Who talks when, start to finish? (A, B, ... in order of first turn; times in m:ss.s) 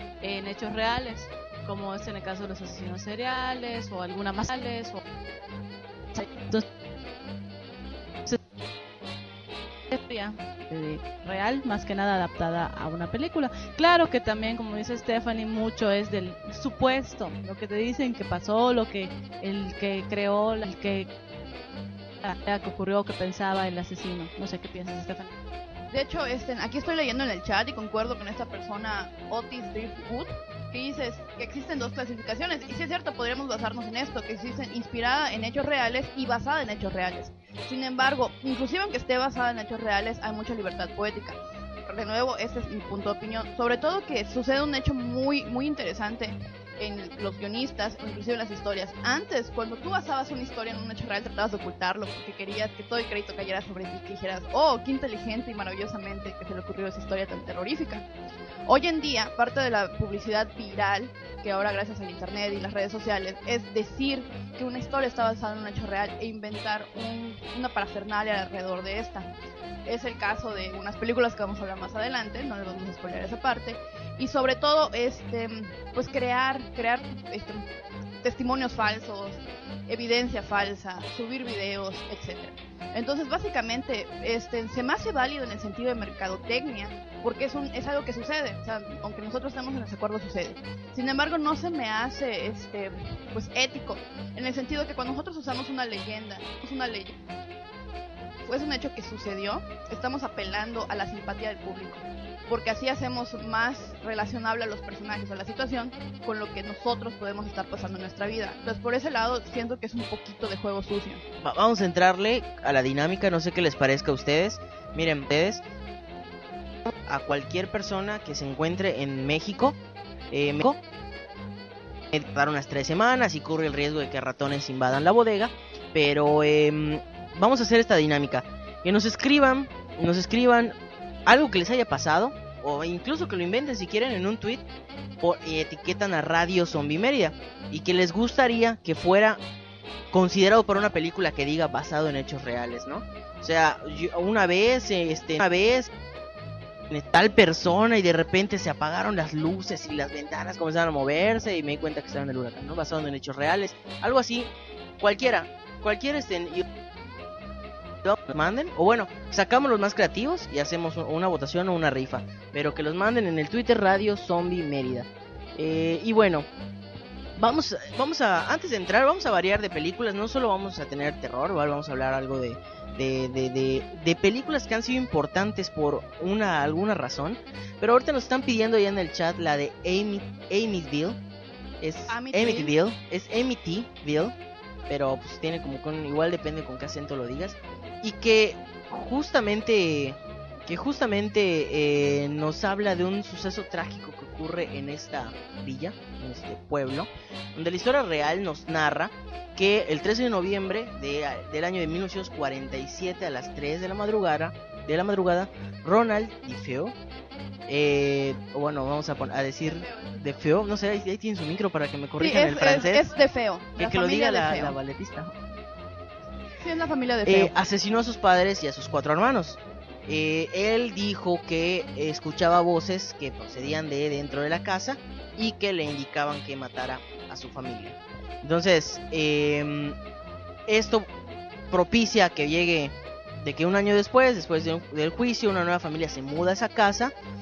0:00.2-0:05.0 A
0:06.1-0:06.6 A
0:09.9-0:21.1 A
0:22.2-0:25.3 A
0:25.9-0:58.1 B
0:58.7-1:09.3 B
1:09.8-1:17.6 B
1:18.2-1:37.1 B
1:38.4-1:51.2 B
1:51.4-1:55.6 C
1:57.1-1:59.8 C
2:00.3-2:00.8 C
2:02.1-2:10.8 C
2:11.3-2:14.6 C
2:15.2-2:19.4 C
2:20.1-2:25.9 C
2:26.9-2:36.6 C
2:38.0-2:46.5 C
2:47.4-3:01.2 C
3:01.8-3:04.3 C
3:02.1-3:02.7 B
3:04.9-3:27.0 C
3:27.7-3:33.1 C
3:29.7-3:30.2 B
3:32.2-3:34.8 B
3:33.8-3:35.3 C
3:36.6-3:37.5 B
3:37.2-3:50.0 C
3:50.7-3:51.1 C
3:51.7-3:57.1 C